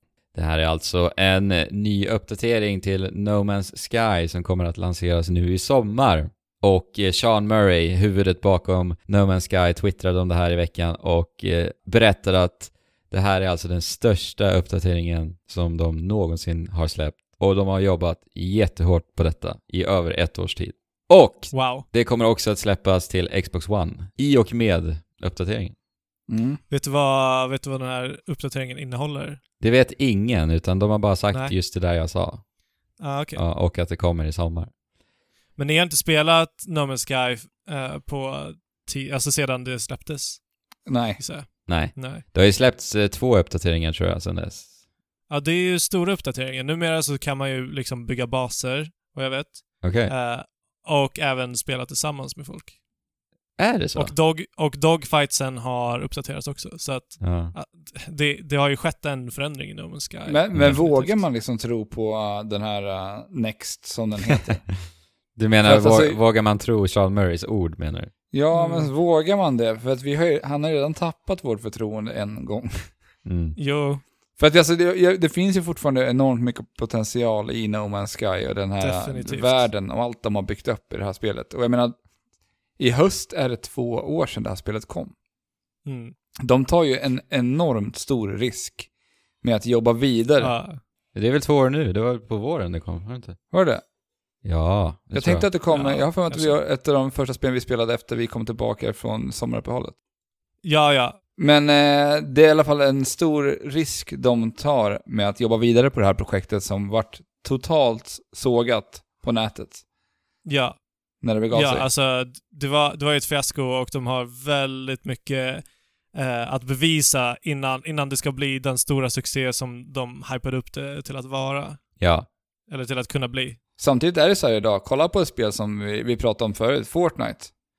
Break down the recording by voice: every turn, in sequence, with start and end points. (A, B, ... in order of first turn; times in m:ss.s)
0:00.3-0:25.8 A
0:21.5-0:21.9 B
0:26.3-0:26.6 C
0:26.7-0:29.4 B
0:29.6-0:32.4 A
0:33.0-0:33.4 B
0:33.4-0:34.7 A
0:35.6-0:40.4 B
0:40.9-0:41.2 C
0:41.2-0:42.2 B
0:41.7-0:44.7 A
0:45.3-0:52.7 B
0:49.8-0:50.1 A
0:53.6-0:54.1 A
0:54.0-1:01.2 B
0:57.2-0:57.5 A
1:00.3-1:04.7 C
1:00.6-1:00.8 A
1:05.4-1:08.1 A
1:05.6-1:06.2 C
1:08.3-1:12.9 C
1:08.5-1:08.9 B
1:13.2-1:13.6 A
1:13.6-1:14.0 B
1:14.4-1:22.0 C
1:18.8-1:19.7 B
1:22.8-1:25.1 C
1:25.8-1:26.2 B
1:26.4-1:28.9 C
1:29.4-1:30.5 C
1:30.4-1:30.8 B
1:31.2-1:33.4 A
1:33.5-1:33.8 C
1:34.4-1:35.5 A
1:35.1-1:40.0 C
1:35.7-1:36.6 B
1:40.6-1:41.2 B
1:41.4-1:49.8 C
1:50.5-1:50.8 B
1:51.2-1:51.9 C
1:51.5-2:01.8 B
2:02.0-2:02.3 A
2:02.7-2:03.6 B
2:03.8-2:07.5 C